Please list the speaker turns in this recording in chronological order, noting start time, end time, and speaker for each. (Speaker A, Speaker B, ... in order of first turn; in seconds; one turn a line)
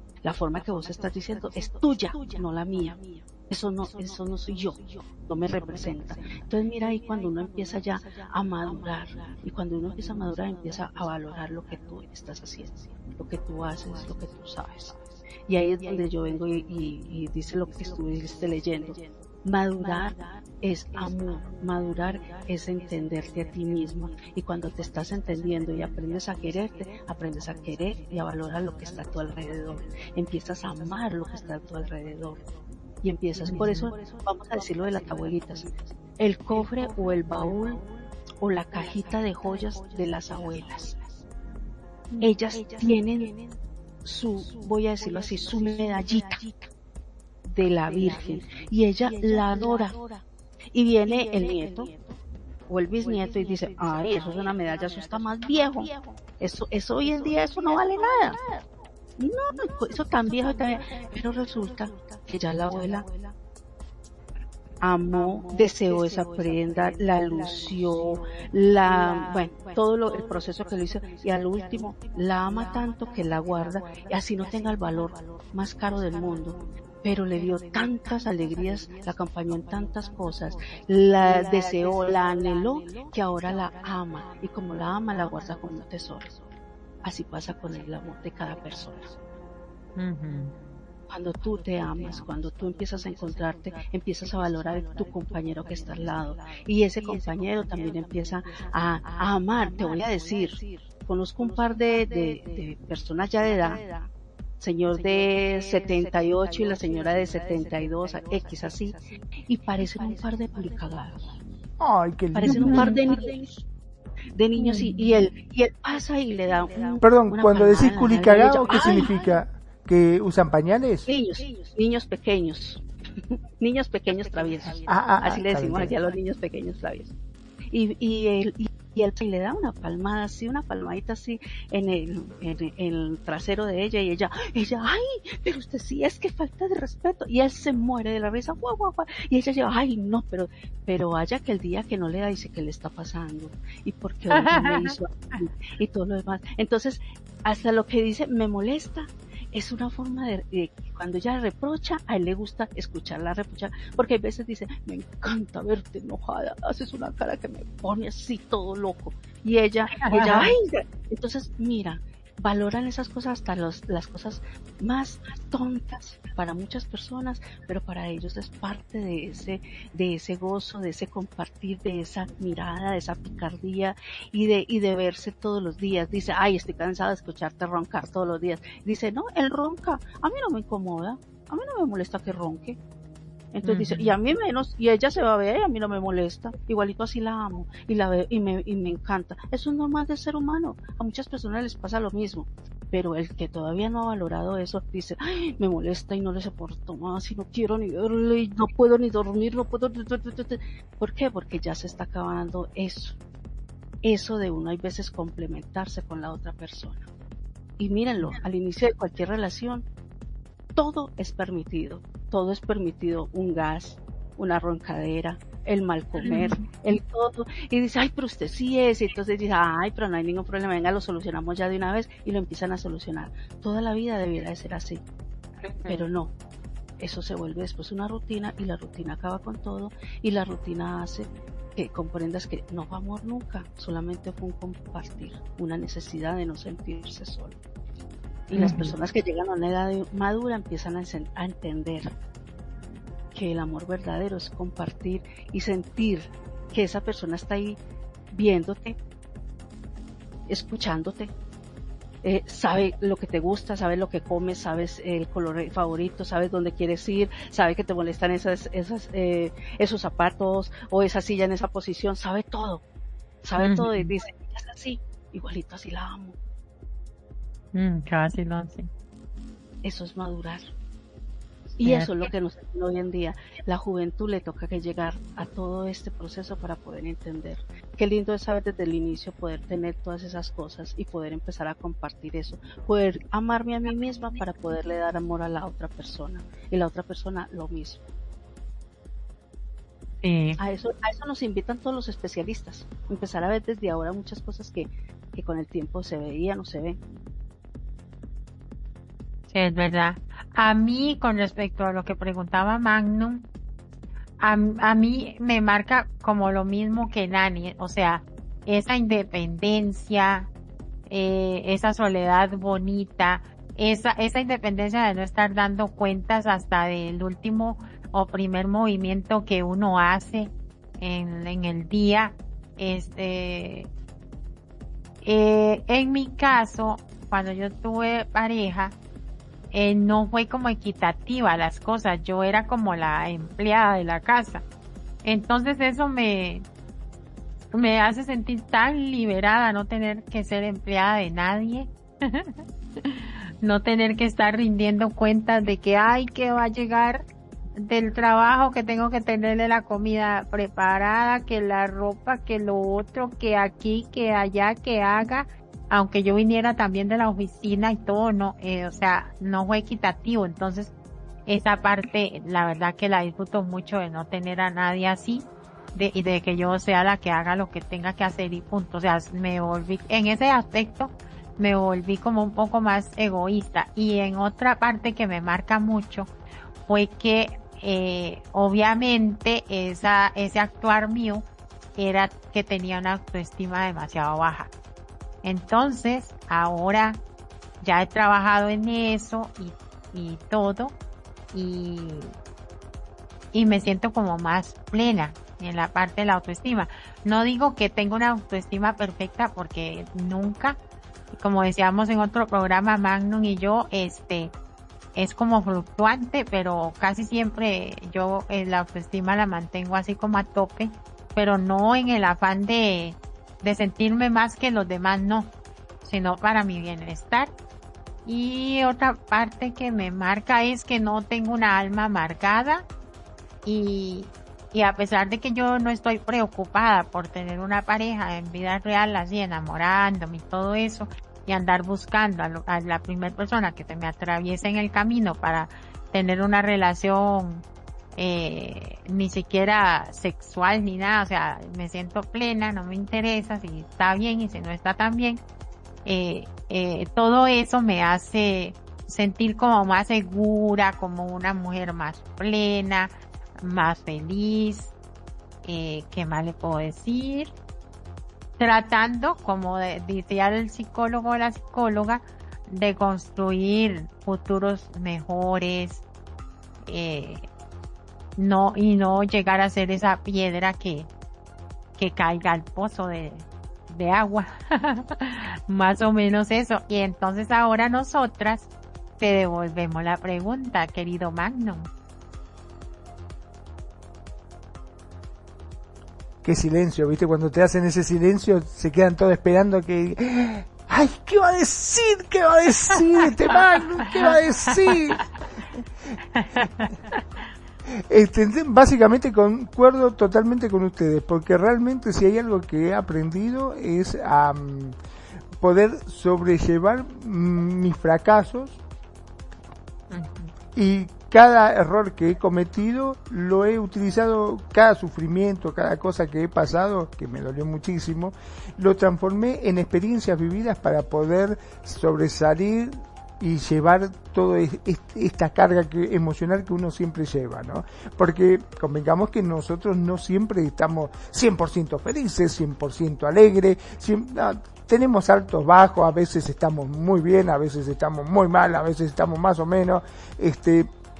Speaker A: 0.2-32.5
Speaker A: 33.0-37.8
Speaker B: 33.5-33.9
Speaker A: 38.4-41.0
Speaker A: 42.2-43.3
Speaker A: 44.0-46.5
Speaker A: 47.5-50.0
Speaker A: 50.7-52.0
Speaker A: 52.7-58.4
Speaker A: 59.2-63.1
Speaker A: 64.8-86.4
Speaker A: 87.0-89.1
Speaker B: 90.0-90.5
Speaker A: 91.1-103.9
Speaker A: 104.6-111.4
Speaker C: 111.8-113.0
Speaker A: 112.3-113.5
Speaker B: 112.4-113.1
Speaker A: 114.3-119.2
Speaker B: 114.6-115.0
Speaker C: 117.0-121.1
Speaker A: 121.1-122.8
Speaker A: 123.6-127.1
Speaker C: 124.9-125.9
Speaker A: 127.7-182.8
Speaker B: 144.3-145.0
Speaker B: 159.9-160.5
Speaker A: 183.5-203.2
Speaker B: 183.6-184.1
Speaker A: 204.0-207.0
Speaker A: 207.8-209.8
Speaker A: 210.8-225.0
Speaker B: 216.2-216.6
Speaker B: 225.6-226.0
Speaker A: 225.9-226.3
Speaker A: 227.0-237.5
Speaker A: 238.5-242.1
Speaker B: 238.6-238.9
Speaker A: 243.3-247.8
Speaker A: 248.3-249.0
Speaker A: 250.5-251.3
Speaker A: 252.2-262.8
Speaker A: 263.4-266.4
Speaker B: 263.6-264.1
Speaker B: 267.7-268.9
Speaker A: 269.8-270.7
Speaker A: 271.8-288.0
Speaker B: 271.8-272.3
Speaker B: 290.2-290.6
Speaker A: 290.6-297.0
Speaker B: 299.5-303.5
Speaker B: 304.4-310.5
Speaker B: 311.1-323.9
Speaker B: 325.2-328.9
Speaker B: 329.7-334.6
Speaker B: 335.2-336.6
Speaker B: 337.7-342.6
Speaker B: 343.1-360.9
Speaker B: 361.5-376.3
Speaker B: 376.9-381.4
Speaker B: 382.0-384.7
Speaker B: 385.4-387.2
Speaker B: 387.8-390.9
Speaker B: 391.5-392.3
Speaker B: 393.5-400.8
Speaker B: 401.3-404.5
Speaker B: 405.1-415.5
Speaker B: 416.0-417.5
Speaker B: 418.2-422.9
Speaker B: 423.6-437.6
Speaker B: 438.1-445.4
Speaker B: 446.0-454.9
Speaker B: 455.6-457.5
Speaker B: 458.6-466.0
Speaker B: 466.9-467.4
Speaker B: 468.4-471.1
Speaker B: 471.9-481.9
Speaker C: 486.4-495.3
Speaker B: 494.1-494.3
Speaker B: 496.3-497.2
Speaker C: 497.9-505.0
Speaker C: 505.6-508.8
Speaker B: 510.1-510.5
Speaker C: 510.7-540.9